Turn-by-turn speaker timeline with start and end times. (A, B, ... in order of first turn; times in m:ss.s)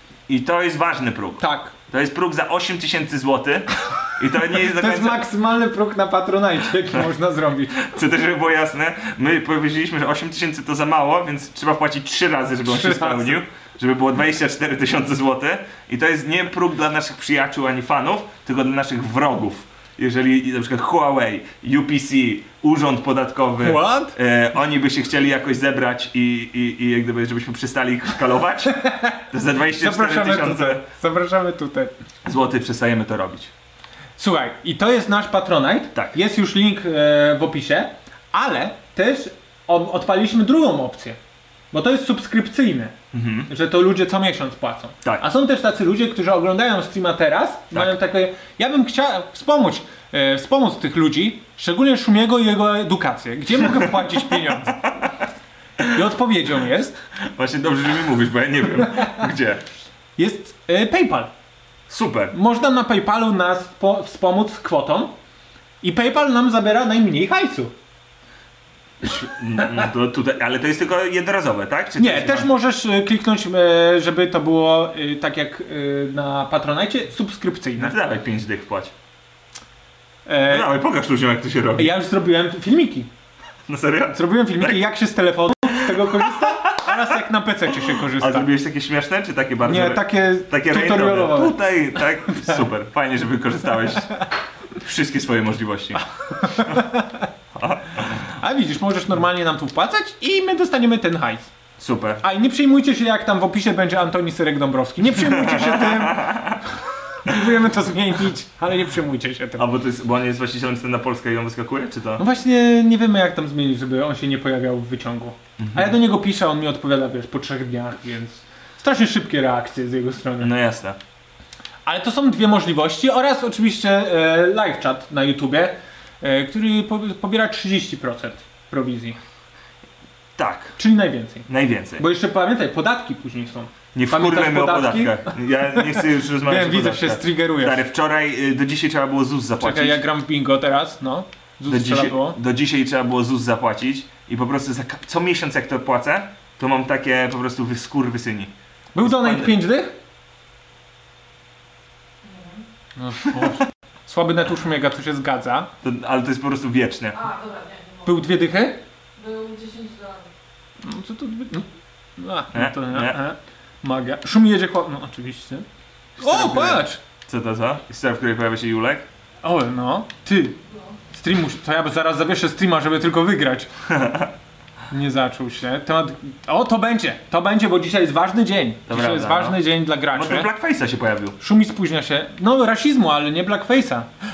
0:00.3-0:05.2 A
0:01.4-0:01.7 B
0:04.6-0:07.8 B
0:07.8-0:30.8 A
0:12.6-0:13.4 B
0:23.6-0:24.1 B
0:28.7-0:29.2 B
0:29.8-0:31.9 B
0:32.2-0:33.5 A
0:34.2-0:41.2 B
0:41.7-0:42.9 B
0:43.1-0:43.5 A
0:43.5-0:54.8 B
0:54.8-0:55.1 A
0:55.9-0:57.0 B
0:57.3-0:59.6 A
1:00.2-1:01.3 B
1:01.9-1:02.3 A
1:02.3-1:05.1 B
1:05.8-1:07.7 B
1:09.0-1:12.5 A
1:12.0-1:17.9 B
1:17.8-1:18.9 A
1:20.2-1:20.7 B
1:20.4-1:21.9 A
1:21.8-1:23.1 B
1:23.7-1:24.8 A
1:24.1-1:28.5 B
1:25.7-1:27.0 A
1:27.9-1:34.1 A
1:29.6-1:31.6 B
1:34.8-1:36.0 A
1:36.4-1:37.2 B
1:37.5-1:38.2 A
1:38.4-1:41.5 B
1:41.8-1:42.2 A
1:42.2-1:46.5 B
1:45.1-1:46.6 A
1:47.2-1:49.6 B
1:49.6-1:52.2 A
1:52.2-2:00.5 B
1:55.6-1:56.0 A
2:00.4-2:01.0 A
2:01.8-2:09.2 B
2:10.4-2:10.8 A
2:10.8-2:11.5 B
2:11.5-2:12.0 A
2:12.0-2:17.8 B
2:13.9-2:20.0 A
2:19.6-2:22.4 B
2:21.7-2:29.5 A
2:28.9-2:29.9 B
2:32.2-2:32.6 C
2:33.0-2:35.7 B
2:35.8-2:37.2 A
2:37.1-2:38.4 C
2:38.0-2:38.8 B
2:39.2-2:40.2 C
2:40.8-2:45.6 B
2:42.5-2:43.2 A
2:46.2-2:49.0 A
2:46.2-2:47.0 B
2:49.4-2:50.6 B
2:50.7-2:50.9 C
2:51.1-2:53.7 B
2:53.9-2:54.3 A
2:54.9-3:00.5 B
2:58.9-2:59.6 A
3:00.1-3:01.4 A
3:01.4-3:04.1 B